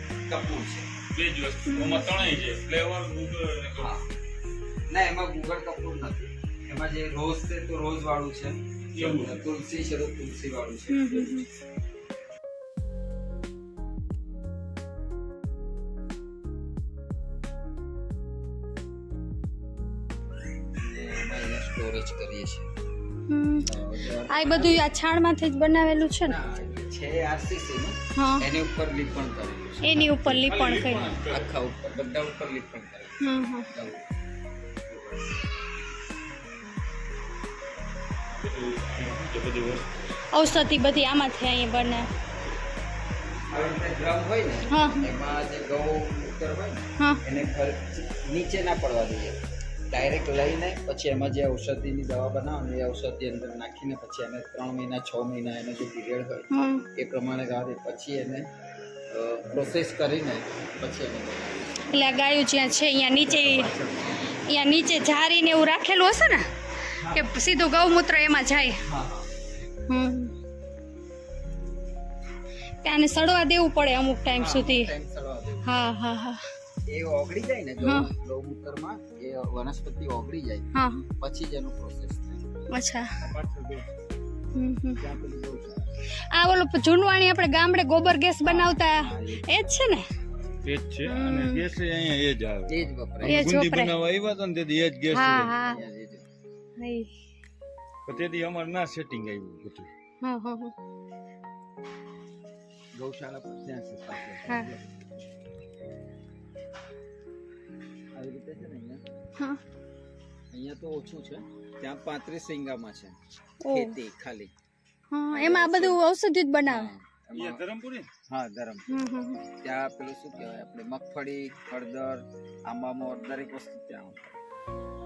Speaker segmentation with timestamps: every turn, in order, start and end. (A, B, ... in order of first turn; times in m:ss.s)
0:00.3-0:00.9 A
0:01.1-0:04.0 B
0:01.7-0:02.0 C
0:03.8-0:04.0 A
0:04.9-0:11.4 A
0:09.0-0:09.4 B
0:10.9-0:11.5 C
0:20.8-0:22.7 A
0:23.3-0:23.7 C
0:23.7-0:24.9 A
0:24.3-0:26.4 C
0:26.2-0:30.2 A
0:28.2-0:28.5 C
0:29.8-0:31.2 C
0:30.2-0:31.5 B
0:31.3-0:34.0 A
0:33.2-0:33.7 C
0:34.9-0:35.4 A
0:38.4-0:39.9 B
0:40.3-0:42.1 C
0:43.5-0:49.4 A
0:44.7-0:45.1 C
0:49.9-0:58.5 A
0:56.5-0:56.9 C
0:59.1-1:01.9 A
1:01.9-1:08.8 C
1:03.2-1:04.0 A
1:07.0-1:07.3 A
1:08.9-1:09.3 A
1:09.9-1:10.3 C
1:12.8-1:14.9 C
1:14.4-1:15.7 A
1:15.6-1:16.4 C
1:16.9-1:22.4 A
1:17.8-1:18.1 C
1:20.7-1:21.1 C
1:22.7-1:23.1 C
1:23.2-1:23.9 B
1:24.6-1:25.0 C
1:25.0-1:25.9 A
1:26.3-1:30.0 C
1:28.4-1:29.6 A
1:30.6-1:35.6 B
1:31.0-1:31.7 C
1:32.7-1:33.6 A
1:33.3-1:33.9 C
1:35.1-1:35.8 C
1:35.6-1:36.3 A
1:36.8-1:37.1 C
1:38.0-1:39.9 B
1:40.2-1:40.7 C
1:42.9-1:45.3 A
1:44.5-1:44.7 C
1:48.1-1:49.0 A
1:50.5-1:53.2 A
1:53.6-1:54.0 C
1:53.7-1:54.5 A
1:55.1-1:56.9 C
1:55.3-1:56.0 A
1:56.7-1:57.6 A
1:57.3-1:58.1 B
1:58.3-1:59.0 A
1:58.9-1:59.5 C
1:59.6-2:04.4 A